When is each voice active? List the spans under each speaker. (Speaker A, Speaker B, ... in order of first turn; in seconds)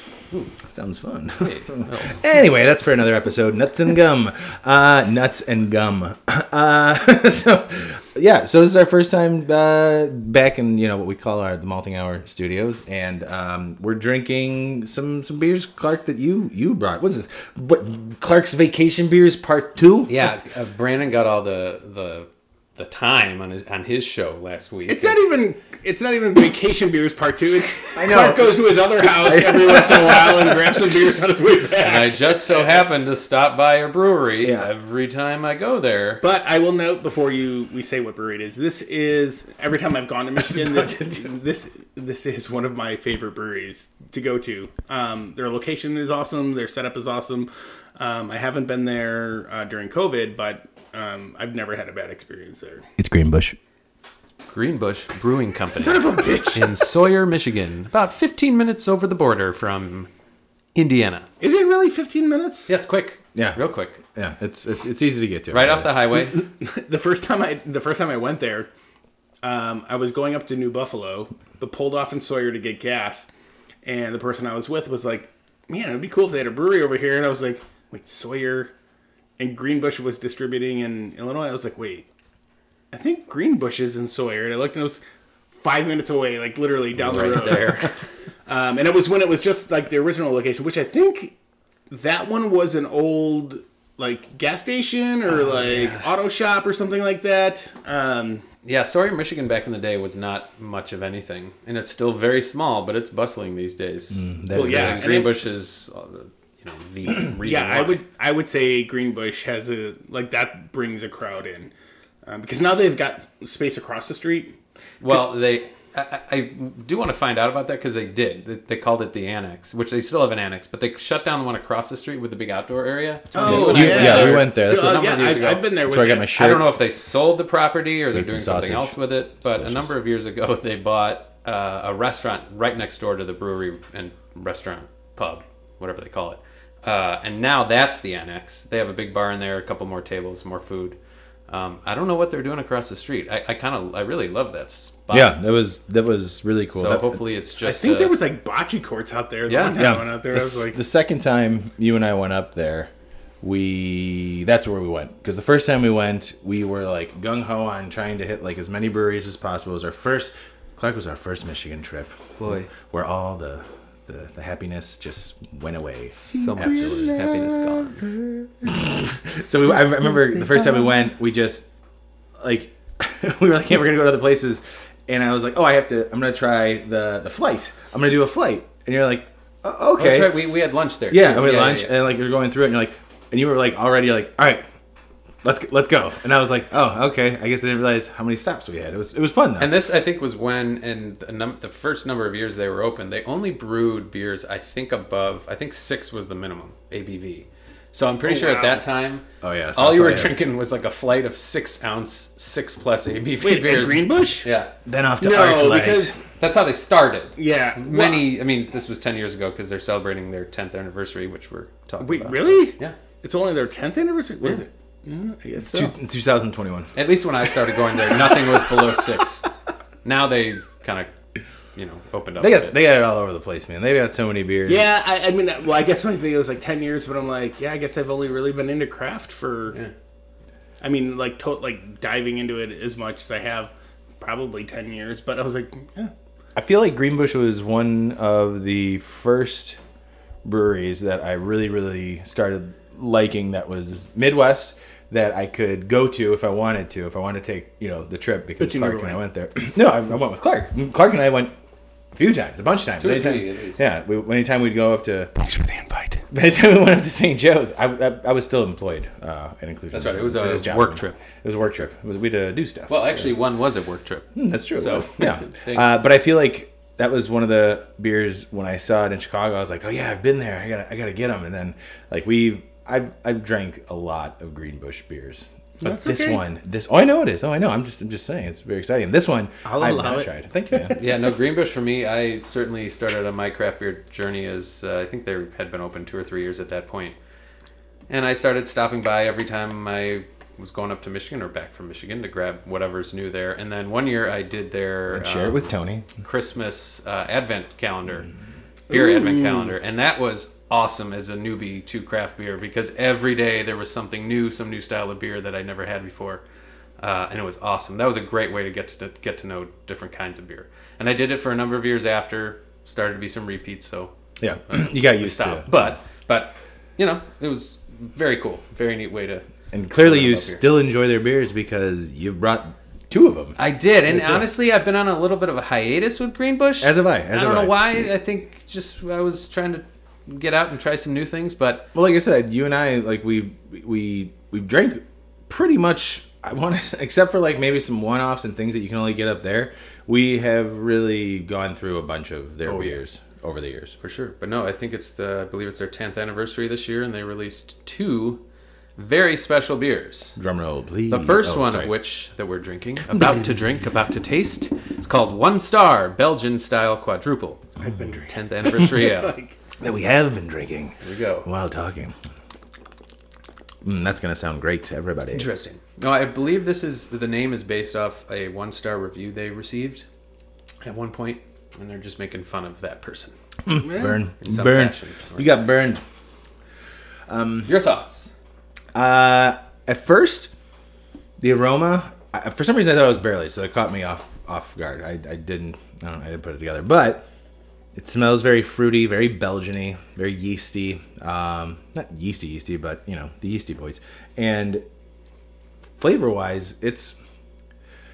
Speaker A: 0.6-20.2, 27.9-30.6, 34.4-34.7, 40.4-41.3, 53.0-53.6, 63.3-65.9, 104.1-105.1, 123.4-125.1, 125.8-126.8, 128.1-129.9, 145.1-147.2, 149.7-152.9, 153.4-167.4, 168.6-171.7, 172.4-180.4, 181.1-184.6, 185.4-189.7, 199.4-200.4, 204.8-206.2, 215.7-216.9, 222.4-224.9, 236.6-239.8, 240.4-251.5, 252.1-255.3, 256.3-263.3, 264.3-281.0, 295.1-296.1, 314.4-316.0, 319.7-324.5, 326.8-327.8, 331.9-343.9, 350.4-351.9, 359.8-362.1, 363.8-365.5, 373.6-376.0, 377.3-377.7, 378.9-380.5, 381.4-387.3, 387.9-394.8, 396.0-397.2
Speaker B: 1.4-2.2, 20.1-25.2, 31.8-36.2, 54.5-60.1, 60.7-61.3, 62.7-64.0, 65.5-66.4, 87.0-87.9, 98.6-108.0, 115.0-141.0, 141.5-145.3, 146.7-148.2, 149.5-149.8, 162.4-162.7, 166.3-168.1, 180.0-181.9, 189.6-204.7, 206.4-212.9, 216.9-219.4, 220.0-221.1, 221.7-222.8, 253.0-253.8, 259.9-261.2, 262.9-265.9, 280.9-287.1, 288.1-298.3, 298.9-306.4, 307.0-314.1, 314.7-319.5, 320.0-320.6, 323.6-331.9, 342.6-343.0, 344.0-348.4, 348.9-350.4, 351.1-357.7, 358.2-359.4, 361.0-361.5, 365.3-370.1, 370.8-373.3, 374.4-375.6, 377.6-378.3
Speaker C: 24.9-32.8, 36.2-52.9, 55.7-56.9, 61.4-62.7, 66.3-68.7, 69.4-73.3, 73.8-78.7, 79.4-82.0, 82.9-85.0, 85.5-87.8, 88.5-91.3, 91.9-98.4, 104.5-105.4, 107.4-111.7, 112.2-114.5, 123.3-126.3, 147.6-150.8, 166.3-167.4, 198.2-198.8, 203.4-204.4, 205.2-206.2, 207.4-208.3, 212.0-215.9, 224.7-229.8, 230.8-236.1, 248.6-249.2, 255.3-256.2, 275.8-276.4, 279.6-280.9, 298.9-299.7, 357.8-359.5, 373.8-374.2